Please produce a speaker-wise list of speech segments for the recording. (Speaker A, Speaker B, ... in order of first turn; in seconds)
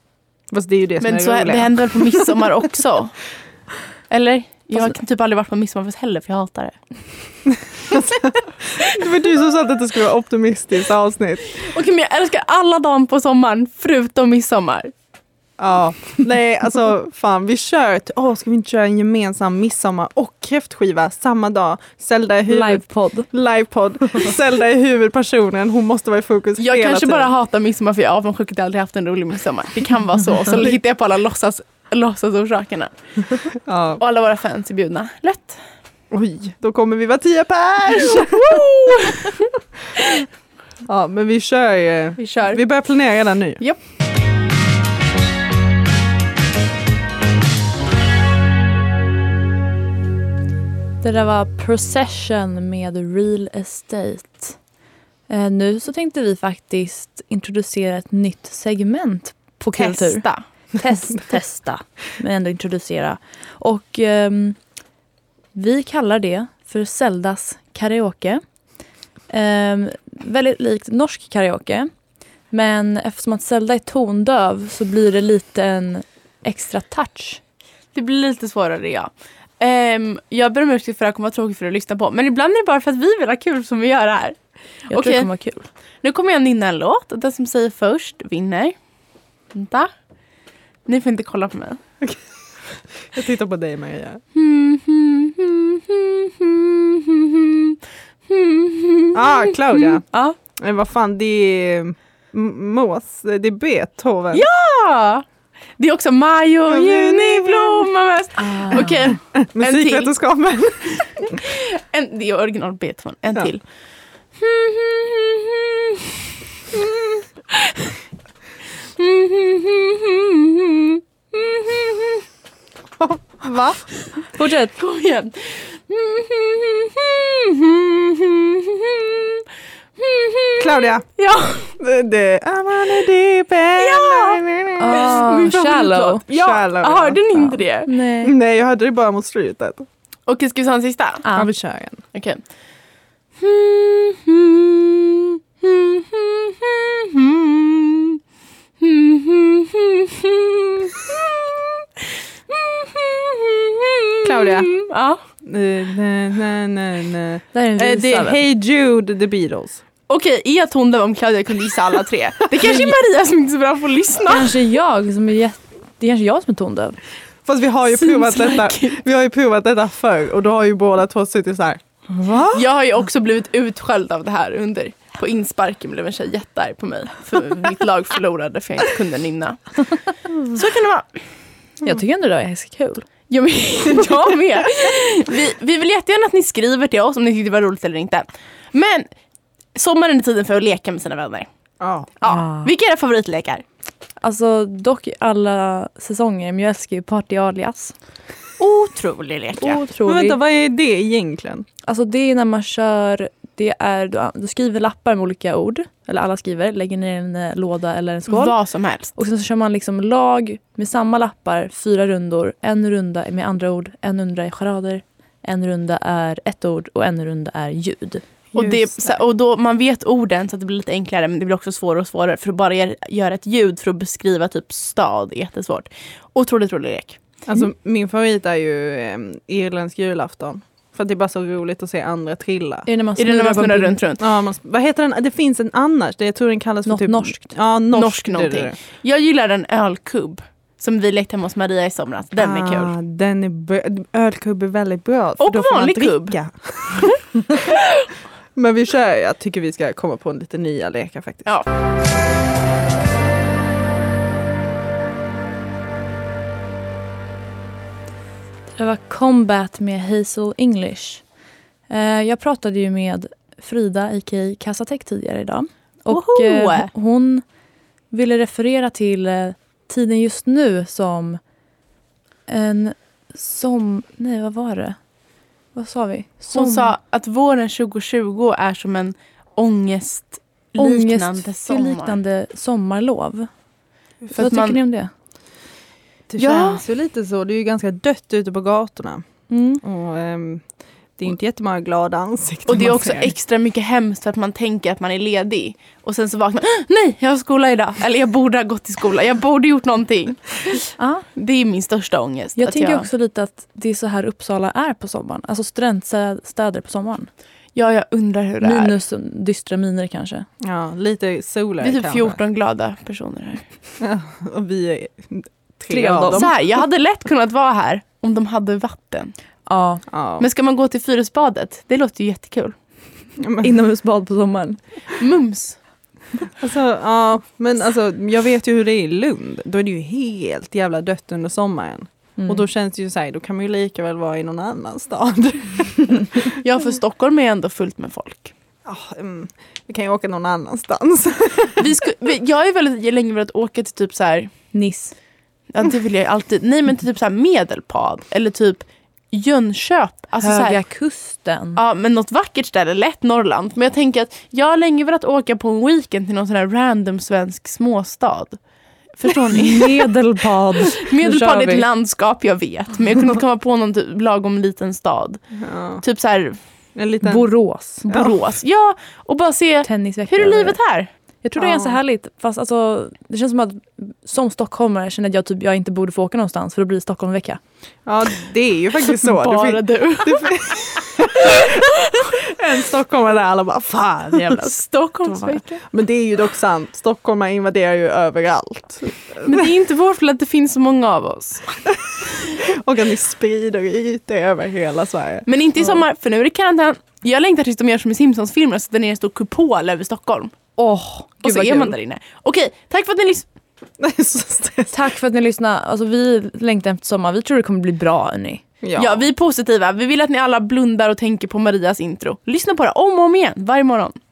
Speaker A: 0.5-2.4, 7.9-11.5, 15.6-27.3, 33.6-34.0, 36.1-39.1, 40.8-43.6, 93.1-94.2, 99.1-100.0, 100.5-104.4, 106.7-107.9, 108.7-111.4, 123.0-123.8, 130.6-131.1, 131.8-135.5, 136.2-137.2, 138.2-139.9, 141.3-142.0, 154.2-154.7, 155.4-159.8, 167.4-172.6, 191.8-192.1, 200.0-201.7, 227.5-232.9, 234.2-238.7, 242.3-247.7, 248.5-251.5, 286.3-289.2, 289.8-290.6, 291.2-293.3, 310.6-312.4, 314.0-316.5, 320.1-320.4, 323.4-323.7, 326.6-336.5, 338.9-341.8, 365.6-366.0, 366.9-367.5, 368.1-368.3, 371.6-372.0, 378.1-389.7, 392.5-395.5, 404.0-404.9, 408.8-409.3
Speaker B: 1.0-3.2, 4.1-6.7, 11.6-14.9, 26.6-35.6, 38.0-39.5, 40.0-40.2, 42.2-42.6, 59.8-60.4, 77.9-84.4, 84.9-85.3, 86.0-88.7, 89.5-89.9, 90.8-91.8, 94.3-100.3, 104.3-105.2, 105.8-110.1, 111.2-113.6, 114.3-117.9, 118.8-122.2, 124.8-131.7, 133.8-137.9, 140.3-141.2, 142.1-142.4, 143.4-148.2, 148.8-155.2, 160.1-164.5, 167.9-169.0, 172.5-179.9, 180.5-181.1, 183.3-189.1, 189.7-191.5, 192.2-193.6, 198.6-199.8, 208.3-209.1, 218.5-227.2, 233.2-234.2, 237.9-242.9, 245.4-246.4, 247.0-248.1, 266.1-266.9, 276.5-282.2, 284.3-284.8, 286.4-286.8, 292.7-303.1, 307.7-308.9, 311.8-313.6, 316.3-319.3, 320.4-322.8, 325.2-325.8, 336.5-338.5, 341.8-344.5, 345.7-350.8, 351.8-358.6, 359.2-360.1, 360.9-365.4, 366.0-366.6, 368.0-371.1, 379.1-382.4, 384.3-385.8, 389.4-391.7, 395.5-400.5, 401.4-403.4, 408.9-414.2
Speaker C: 22.5-23.3, 51.0-54.6, 55.3-64.6, 65.5-68.4, 69.3-71.9, 72.5-77.4, 84.9-85.7, 108.4-109.1, 124.3-124.8, 134.8-136.2, 137.3-138.3, 141.2-141.5, 157.5-158.4, 162.6-162.9, 164.3-167.0, 181.8-183.1, 192.2-192.7, 194.2-197.9, 199.6-200.4, 201.8-208.5, 209.2-218.7, 232.8-234.0, 236.8-237.5, 258.8-261.2, 261.9-267.4, 268.1-271.4, 272.5-275.0, 275.7-276.9, 280.8-283.5, 284.3-285.1, 289.5-289.8, 301.0-301.2, 302.6-307.3, 308.6-310.4, 315.9-316.4, 319.7-320.0, 323.6-324.8, 332.4-332.6, 344.7-345.1, 350.4-351.8, 359.5-361.8, 367.2-368.0, 369.8-370.8, 371.4-377.6, 400.8-401.9, 404.9-408.6